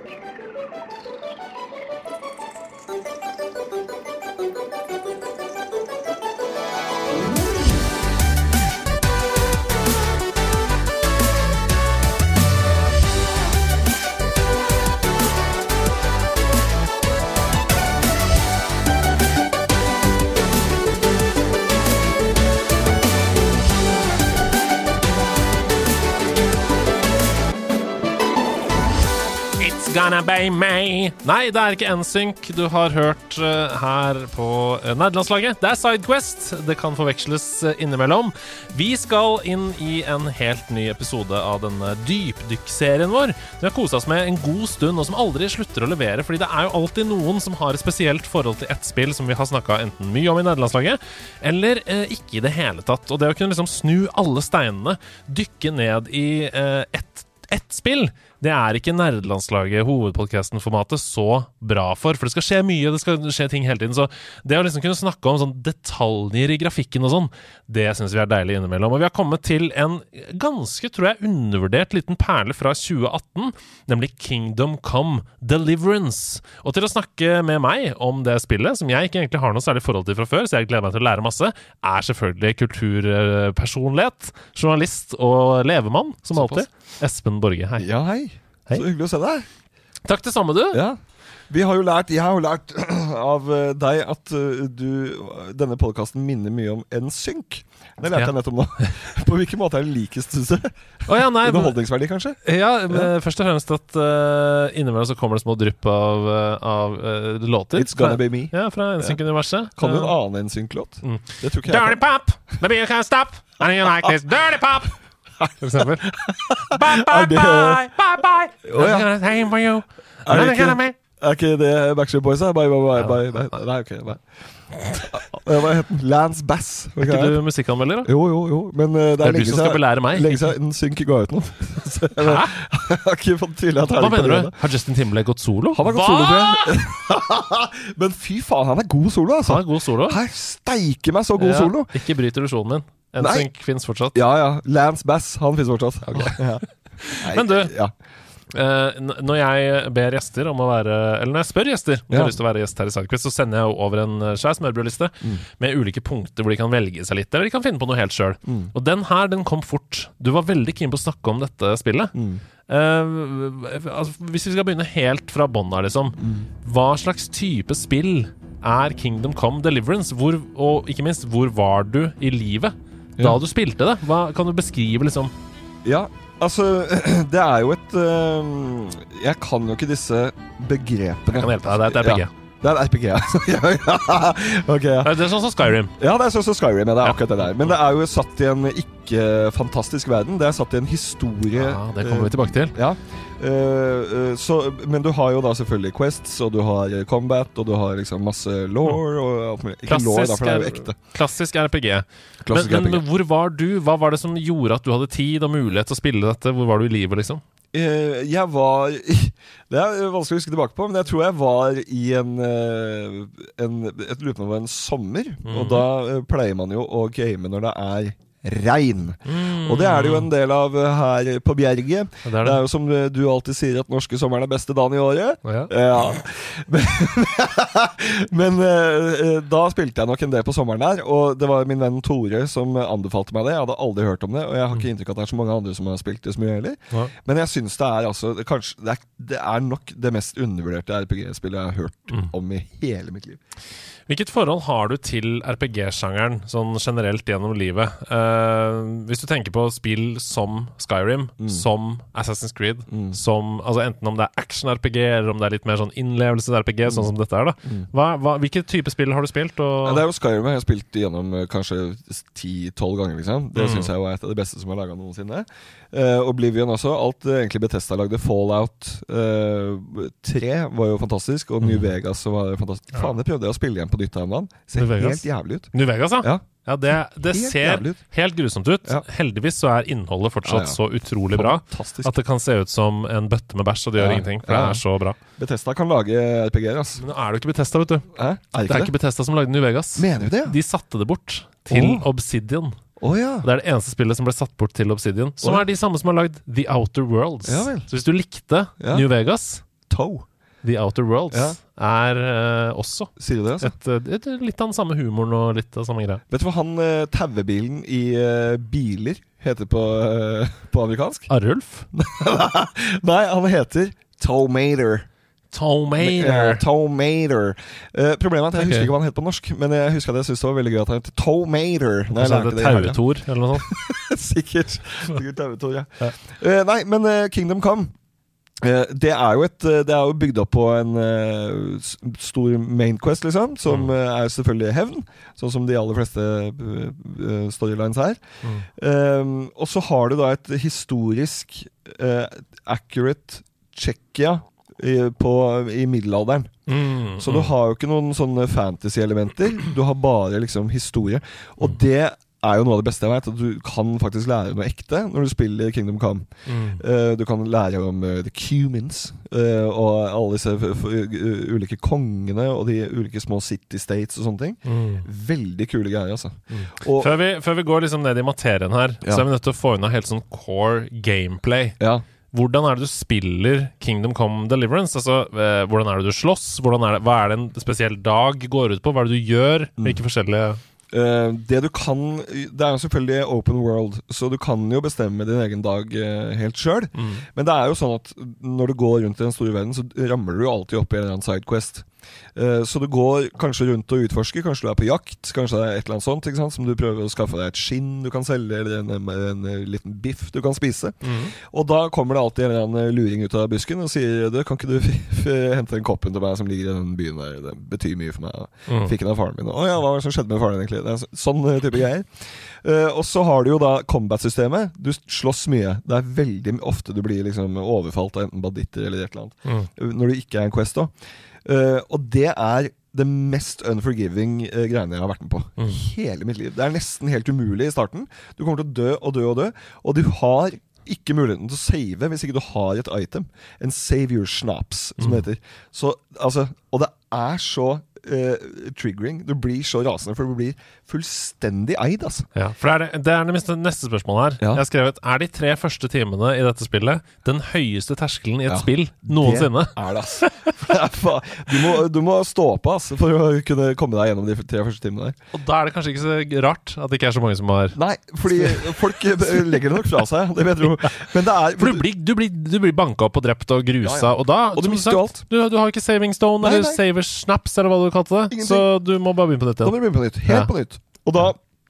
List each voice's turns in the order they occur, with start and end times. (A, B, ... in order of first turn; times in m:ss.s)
0:29.6-1:27.9 A
1:26.3-1:26.7 B
1:27.8-1:29.5 B
1:30.0-1:30.8 A
1:30.7-1:42.4 B
1:41.1-1:41.8 A
1:42.4-1:50.1 A
1:47.8-1:49.2 B
1:49.8-1:52.0 B
1:51.0-1:55.0 A
1:55.4-1:57.8 B
1:55.6-1:56.1 A
1:56.7-2:01.0 A
1:58.6-1:59.1 B
2:00.3-2:04.2 B
2:04.7-2:05.1 A
2:05.1-2:07.4 B
2:07.0-2:08.1 A
2:08.0-2:14.6 B
2:09.2-2:10.5 A
2:12.2-2:12.5 A
2:14.0-2:16.8 A
2:15.7-2:21.9 B
2:19.4-2:20.2 A
2:21.4-2:24.2 A
2:23.2-2:23.5 B
2:24.1-2:27.9 B
2:26.1-2:26.4 A
2:27.0-2:27.7 A
2:28.5-2:42.1 A
2:38.5-2:38.7 B
2:42.1-2:42.4 B
2:42.7-2:55.3 A
2:46.2-2:46.5 B
2:55.8-3:21.0 B
3:01.3-3:02.3 A
3:05.0-3:05.9 A
3:07.0-3:07.7 A
3:11.5-3:12.8 A
3:19.9-3:27.4 A
3:22.4-3:23.0 B
3:27.7-4:03.4 B
3:35.4-3:35.9 A
3:39.2-3:40.3 A
3:42.2-3:42.6 A
3:45.4-3:45.7 A
4:04.1-4:20.0 A
4:11.4-4:11.6 B
4:12.9-4:13.2 B
4:16.9-4:17.1 B
4:19.8-4:36.4 B
4:23.6-4:23.9 A
4:31.6-4:31.9 A
4:34.8-4:45.2 A
4:37.3-4:38.0 B
4:40.5-4:40.8 B
4:41.3-4:42.1 B
4:44.0-4:44.8 B
4:45.4-4:47.0 B
4:47.0-4:48.1 A
4:48.2-4:48.9 B
4:48.7-4:52.8 A
4:50.0-4:50.6 B
4:51.7-4:52.1 B
4:53.0-4:53.5 B
4:53.4-4:59.6 A
4:57.4-4:57.9 B
4:58.8-4:59.1 B
4:59.9-5:00.3 B
5:00.6-5:06.2 A
5:01.3-5:01.6 B
5:03.2-5:03.8 B
5:06.3-5:11.3 B
5:11.3-5:11.9 A
5:11.9-5:15.1 B
5:15.5-5:16.6 A
5:16.0-5:23.0 B
5:18.6-5:18.9 A
5:22.1-5:23.7 A
5:23.6-5:27.9 B
5:28.6-5:46.5 B
5:33.7-5:33.9 A
5:46.7-5:47.5 A
5:47.2-6:07.1 B
5:56.5-5:56.8 A
6:04.6-6:05.1 A
6:06.5-6:11.8 A
6:11.8-6:12.0 B
6:12.3-6:20.6 A
6:20.9-7:00.9 B
6:27.0-6:27.2 A
6:41.0-6:41.3 A
6:48.7-6:48.9 A
7:01.4-7:22.3 B
7:15.0-7:15.2 A
7:22.4-7:30.5 A
7:28.5-7:35.2 B
7:35.3-7:37.8 A
7:37.8-7:41.9 B
7:38.3-7:38.8 A
7:41.6-7:49.8 A
7:43.8-7:45.2 B
7:46.4-7:46.8 B
7:48.3-7:48.7 B
7:49.6-7:51.4 B